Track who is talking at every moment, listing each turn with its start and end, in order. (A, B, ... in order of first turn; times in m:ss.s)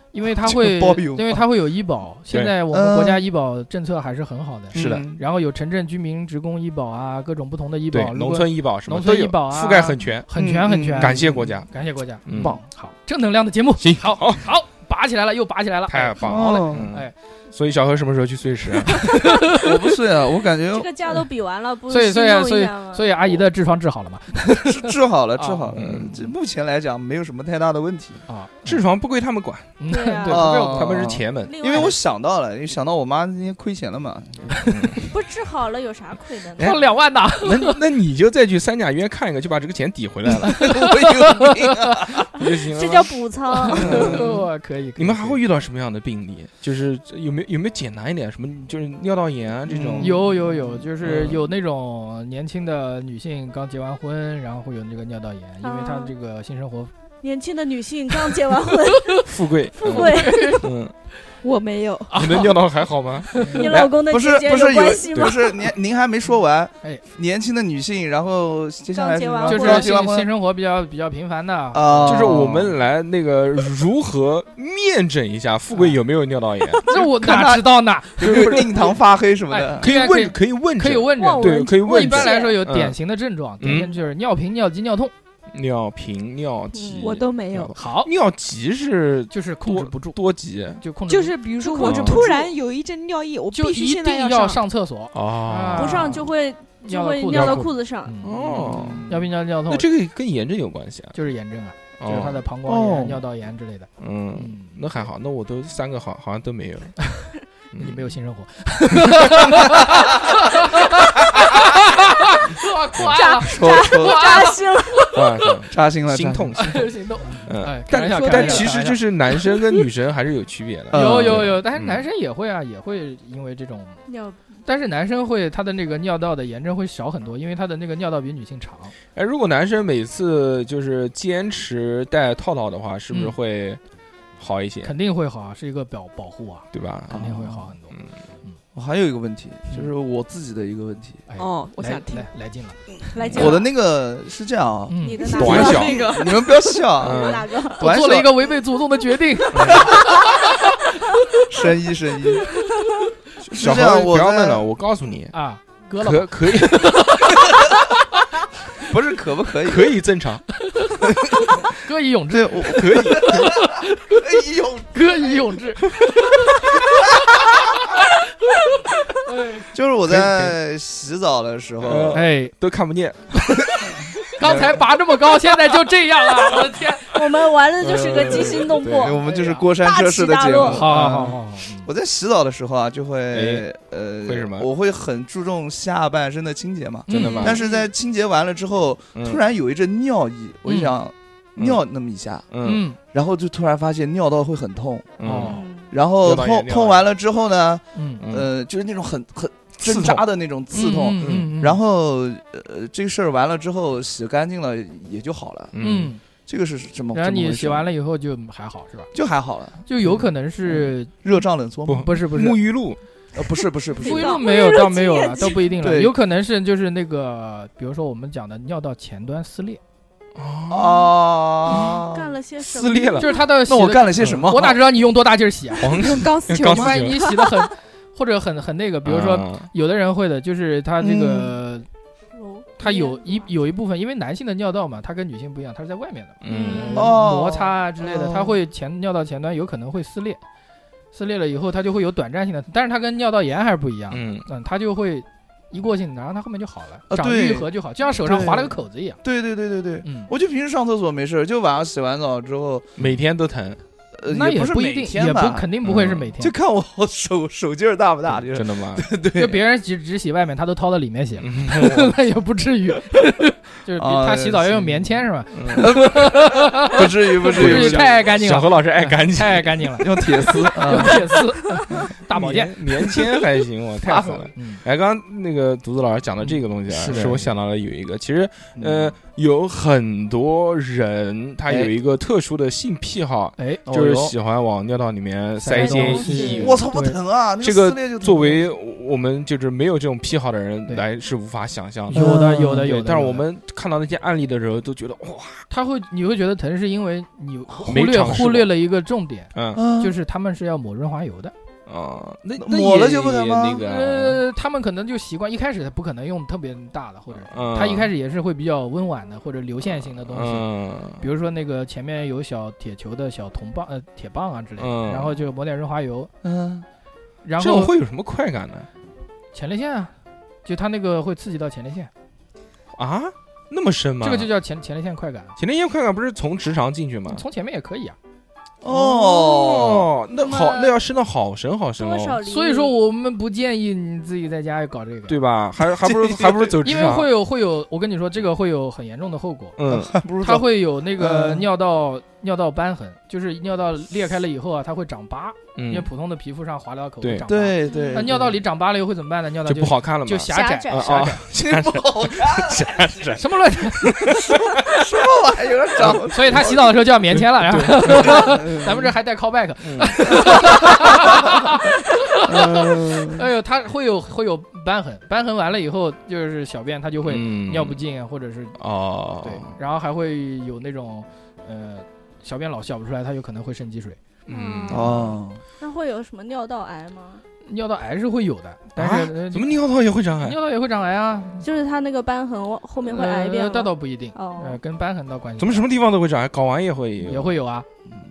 0:00.1-0:17.1 A
0:00.4-0:01.4 B
0:02.7-0:03.2 B
0:04.7-0:05.1 C
0:04.7-0:05.2 B
0:07.9-0:10.3 C
0:10.4-0:11.6 B
0:10.9-0:11.7 C
0:12.2-0:12.6 C
0:13.8-0:14.5 C
0:15.9-0:19.1 C
0:16.2-0:16.9 B
0:18.9-0:19.7 A
0:19.5-0:20.9 B
0:20.7-0:23.3 D
0:21.9-0:25.8 A
0:24.6-0:28.2 B
0:25.7-0:26.3 C
0:28.3-0:28.8 A
0:28.6-0:31.6 C
0:29.8-0:31.0 A
0:29.9-0:30.6 D
0:30.3-0:34.7 B
0:31.4-0:32.0 D
0:34.5-0:35.0 A
0:34.7-0:35.0 C
0:35.0-0:36.8 D
0:36.6-0:36.9 C
0:36.6-0:37.8 A
0:37.4-0:40.7 C
0:40.4-0:41.7 A
0:40.5-0:42.3 B
0:42.4-0:43.1 C
0:42.7-0:44.1 D
0:43.6-0:45.4 A
0:43.7-0:44.4 C
0:43.7-0:44.3 B
0:45.0-0:50.2 C
0:49.7-0:50.3 B
0:50.0-0:56.9 A
0:51.0-0:51.5 C
0:55.6-0:56.1 D
0:57.2-1:00.7 D
0:59.2-1:00.9 C
0:59.9-1:00.6 A
1:01.4-1:02.3 E
1:02.1-1:02.5 A
1:02.1-1:03.4 C
1:03.3-1:03.8 A
1:03.4-1:05.7 D
1:03.6-1:10.3 B
1:08.9-1:10.0 D
1:09.5-1:12.3 A
1:11.7-1:12.8 B
1:12.0-1:16.9 C
1:16.9-1:18.8 A
1:16.9-1:19.9 B
1:18.2-1:18.9 C
1:19.5-1:25.1 A
1:19.8-1:23.0 C
1:21.2-1:22.6 D
1:23.6-1:23.9 C
1:25.5-1:30.8 C
1:26.7-1:27.2 D
1:27.0-1:27.8 E
1:27.8-1:28.1 A
1:29.3-1:30.2 A
1:30.8-1:31.4 A
1:31.1-1:34.6 E
1:31.6-1:32.5 D
1:31.7-1:32.3 C
1:33.5-1:36.3 A
1:35.1-1:36.2 C
1:35.8-1:38.2 D
1:36.9-1:39.9 A
1:37.3-1:37.7 C
1:38.2-1:41.2 C
1:38.4-1:39.2 B
1:41.1-1:44.9 A
1:42.0-1:42.4 C
1:42.7-1:43.2 B
1:44.0-1:47.0 C
1:47.0-1:55.6 A
1:47.7-1:48.1 C
1:49.0-1:49.5 C
1:53.2-1:55.2 D
1:53.5-1:54.4 B
1:55.1-1:56.9 C
1:55.7-1:56.8 B
1:56.6-1:59.1 A
1:57.4-2:02.0 C
1:58.3-1:58.6 D
2:00.9-2:01.6 B
2:00.9-2:04.0 A
2:04.1-2:04.4 D
2:04.7-2:09.0 A
2:09.2-2:13.8 C
2:14.4-2:14.9 C
2:14.8-2:18.6 A
2:16.7-2:18.1 C
2:18.8-2:21.2 B
2:21.3-2:22.8 A
2:21.4-2:22.3 E
2:23.0-2:23.5 E
2:23.1-2:23.7 D
2:23.2-2:23.6 C
2:23.3-2:28.4 B
2:24.9-2:25.6 A
2:25.0-2:27.8 D
2:25.2-2:26.6 E
2:25.4-2:26.0 C
2:27.0-2:27.5 C
2:27.8-2:31.4 A
2:29.5-2:29.9 C
2:31.5-2:32.6 B
2:33.4-2:35.3 C
2:33.5-2:34.6 B
2:35.3-2:38.0 A
2:36.0-2:37.2 C
2:38.8-2:40.0 B
2:39.7-2:40.4 C
2:40.6-2:44.2 A
2:42.3-2:45.4 B
2:42.7-2:43.5 C
2:44.9-2:48.0 A
2:49.2-2:49.7 A
2:49.7-2:52.2 B
2:50.1-2:50.6 C
2:51.8-2:53.5 C
2:52.1-2:52.5 A
2:53.4-2:57.2 A
2:54.4-2:54.8 B
2:57.0-3:00.9 D
2:57.8-2:59.2 C
2:58.2-3:15.2 B
2:59.2-2:59.7 A
3:00.6-3:01.9 A
3:03.3-3:03.6 C
3:04.2-3:04.7 C
3:07.1-3:07.6 A
3:07.1-3:07.6 C
3:07.2-3:07.9 D
3:09.2-3:09.4 C
3:10.7-3:10.9 A
3:11.6-3:11.8 C
3:12.5-3:12.8 C
3:12.6-3:13.0 A
3:15.2-3:15.6 C
3:15.2-3:15.6 A
3:15.4-3:15.9 D
3:15.9-3:25.8 B
3:16.2-3:17.1 C
3:17.9-3:18.3 A
3:18.2-3:18.5 C
3:19.8-3:20.2 C
3:20.7-3:21.8 A
3:21.2-3:21.5 C
3:25.7-3:26.1 C
3:25.8-3:26.2 A
3:26.4-3:27.9 B
3:27.1-3:29.1 A
3:29.1-3:29.8 B
3:29.8-3:31.2 A
3:30.7-3:32.1 B
3:31.9-3:33.0 C
3:31.9-3:32.6 A
3:33.4-3:34.4 B
3:34.0-3:35.8 D
3:34.0-3:39.8 A
3:35.8-3:36.2 B
3:40.4-3:41.1 C
3:40.7-3:42.3 B
3:41.6-3:43.5 D
3:42.6-3:43.3 C
3:43.2-3:51.9 A
3:43.7-3:44.8 B
3:44.2-3:44.5 C
3:45.8-3:47.3 C
3:46.0-3:47.4 E
3:49.0-3:49.7 C
3:51.0-3:51.6 B
3:52.3-3:53.5 D
3:52.8-4:00.4 A
3:56.4-3:57.0 C
3:56.5-3:57.2 D
3:56.9-3:58.6 B
4:01.1-4:09.2 A
4:04.1-4:04.5 C
4:07.1-4:12.9 B
4:10.0-4:10.3 A
4:13.0-4:13.8 C
4:14.2-4:15.7 B
4:14.3-4:16.6 A
4:15.8-4:16.3 C
4:16.4-4:19.6 B
4:18.3-4:19.1 C
4:19.4-4:33.2 A
4:21.4-4:22.2 C
4:24.0-4:28.2 B
4:25.5-4:26.0 C
4:27.4-4:30.0 C
4:30.0-4:32.1 B
4:30.9-4:31.2 C
4:32.3-4:46.9 C
4:34.0-4:34.5 B
4:34.2-4:34.8 A
4:36.9-4:37.5 B
4:37.1-4:37.3 A
4:38.8-4:39.2 B
4:41.7-4:41.9 B
4:43.6-4:43.8 A
4:43.9-4:44.3 B
4:45.6-4:47.2 A
4:45.8-4:46.8 D
4:46.5-4:48.6 B
4:47.6-4:55.7 C
4:52.1-4:53.4 A
4:52.1-4:52.8 B
4:55.7-5:01.5 A
4:57.8-4:58.7 C
4:59.5-4:59.8 C
4:59.8-5:00.2 B
5:01.9-5:04.4 C
5:02.6-5:03.8 B
5:03.8-5:16.3 A
5:07.4-5:08.1 C
5:09.9-5:11.2 C
5:14.8-5:15.4 C
5:16.4-5:16.9 B
5:17.4-5:17.9 A
5:17.6-5:18.9 C
5:19.5-5:20.1 A
5:20.6-5:22.1 A
5:22.9-5:24.5 C
5:24.2-5:25.6 A
5:25.6-5:27.4 C
5:27.3-5:28.2 A
5:28.8-5:30.1 B
5:28.9-5:32.4 C
5:30.4-5:31.0 D
5:32.0-5:33.0 D
5:32.4-5:35.4 A
5:35.3-5:37.3 C
5:36.0-5:36.7 B
5:36.8-5:39.8 A
5:39.8-5:40.2 C
5:39.9-5:40.7 B
5:40.4-5:51.4 A
5:41.2-5:41.7 B
5:45.8-5:46.1 C
5:47.2-5:47.5 C
5:47.5-5:48.5 B
5:47.9-5:48.3 D
5:49.6-5:55.1 C
5:50.5-5:51.2 D
5:51.5-5:53.3 B
5:53.3-5:54.4 A
5:54.4-5:56.9 B
5:56.0-5:56.7 C
5:56.3-6:08.8 A
5:57.3-5:58.6 C
5:58.1-5:59.1 B
5:59.8-6:00.8 C
6:00.7-6:01.5 B
6:02.4-6:03.5 B
6:07.3-6:08.0 C
6:08.8-6:09.8 C
6:09.4-6:14.2 A
6:14.5-6:15.3 C
6:14.5-6:17.4 D
6:14.9-6:15.6 B
6:17.6-6:19.8 A
6:19.0-6:20.6 C
6:20.4-6:21.6 A
6:21.6-6:24.8 D
6:23.0-6:25.9 A
6:25.6-6:27.6 C
6:27.2-6:27.9 A